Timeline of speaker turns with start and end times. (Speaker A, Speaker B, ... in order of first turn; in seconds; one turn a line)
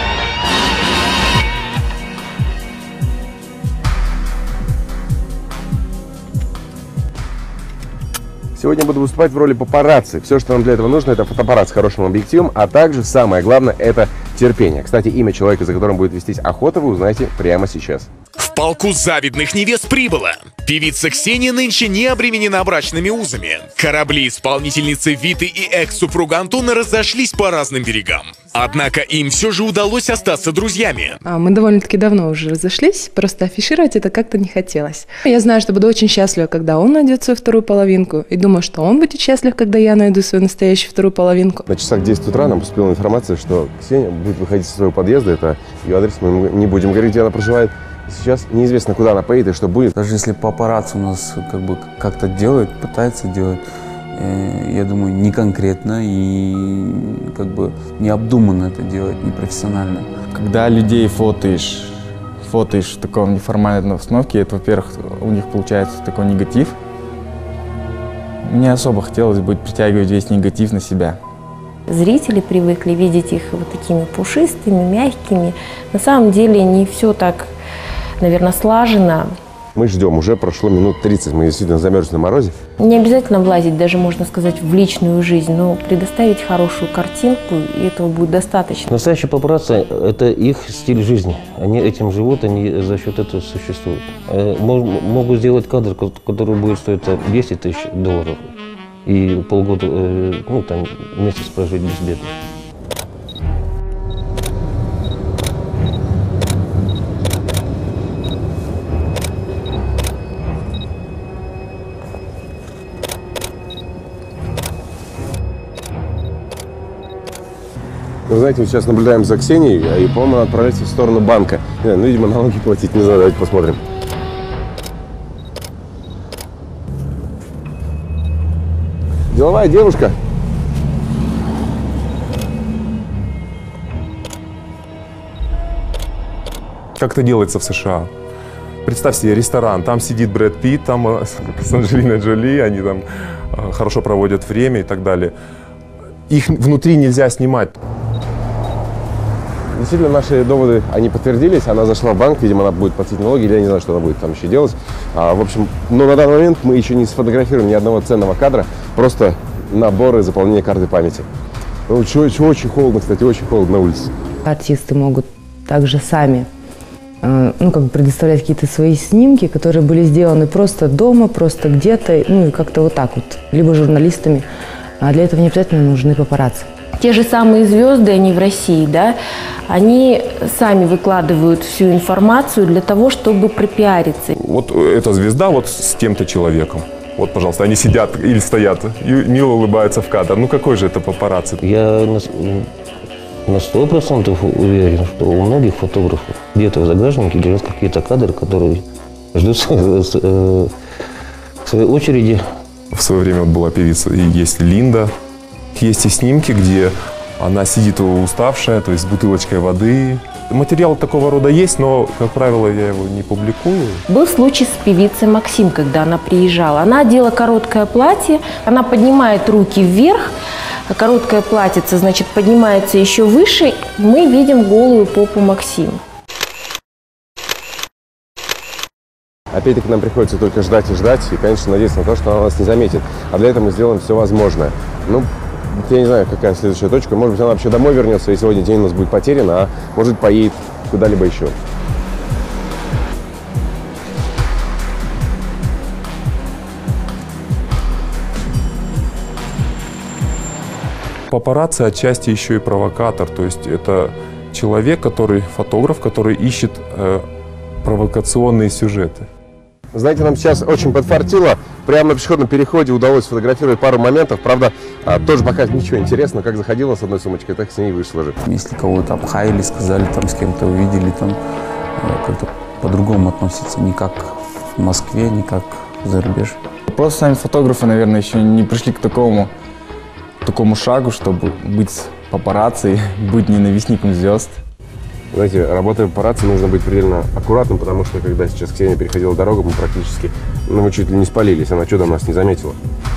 Speaker A: 8.6-18.1
Speaker B: 18.4-31.2
Speaker C: 31.2-41.6
Speaker A: 41.7-49.9
Speaker D: 50.0-53.6
Speaker D: 54.1-60.1
Speaker E: 60.3-66.8
Speaker E: 68.4-71.2
Speaker F: 71.9-77.5
Speaker F: 78.2-79.3
Speaker A: 79.8-82.5
Speaker F: 82.8-88.9
Speaker G: 88.9-98.5
Speaker G: 99.1-102.3
Speaker A: 118.3-123.8
Speaker A: 129.3-130.2
Speaker H: 137.0-138.1
Speaker H: 138.8-145.3
Speaker H: 146.3-147.8
Speaker A: 149.7-161.3
Speaker A: 161.9-164.1
Speaker I: 164.5-166.5
Speaker I: 167.2-174.5
Speaker I: 175.0-176.7
Speaker F: 177.0-179.2
Speaker F: 179.7-184.3
Speaker H: 184.4-191.6
Speaker G: 191.6-192.7
Speaker G: 193.5-200.7
Speaker G: 201.7-202.4
Speaker H: 202.9-205.1
Speaker H: 205.7-214.1
Speaker F: 214.1-220.3
Speaker F: 220.9-226.0
Speaker A: 229.5-241.6
Speaker H: 251.3-257.2
Speaker H: 257.8-259.3
Speaker A: 259.9-268.4
Speaker D: 268.4-271.4
Speaker D: 272.0-276.6
Speaker E: 276.9-279.5
Speaker E: 280.4-284.6
Speaker A: 285.3-292.8